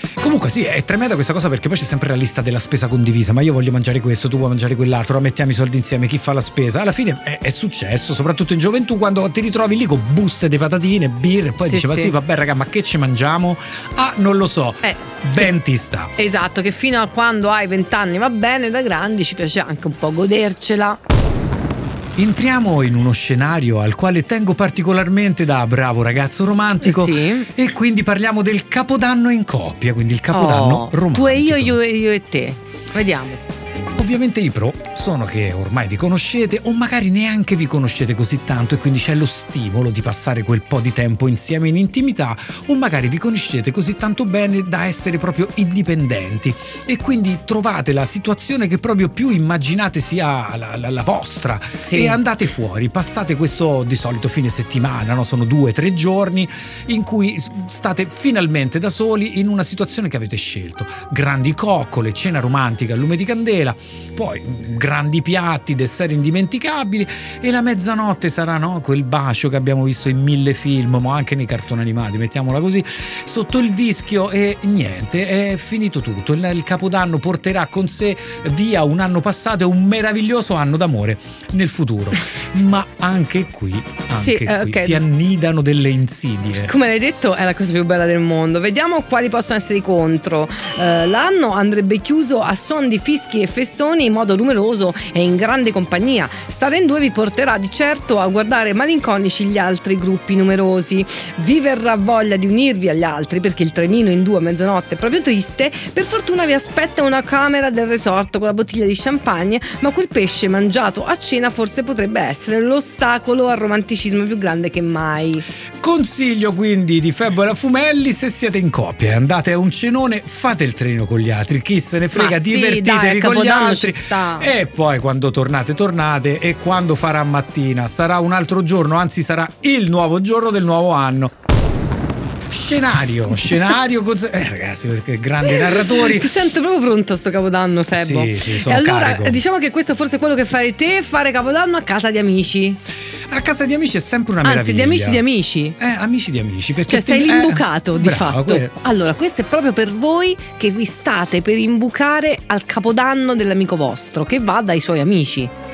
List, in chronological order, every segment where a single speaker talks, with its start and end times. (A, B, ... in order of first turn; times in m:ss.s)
0:00.2-0:16.1 A
0:11.7-0:12.1 B
0:14.8-0:15.5 B
0:16.2-0:21.0 B
0:22.2-0:31.8 A
0:26.8-0:27.5 B
0:30.3-0:33.4 B
0:33.9-1:26.7 A
0:51.8-0:52.2 B
1:24.2-1:25.0 B
1:26.6-1:55.4 B
1:55.8-2:11.3 A
2:02.1-2:04.5 B
2:12.5-2:16.4 A
2:15.4-2:22.8 B
2:17.9-2:19.4 A
2:23.3-2:25.2 A
2:24.4-2:25.8 B
2:25.8-2:28.7 A
2:26.9-2:35.5 B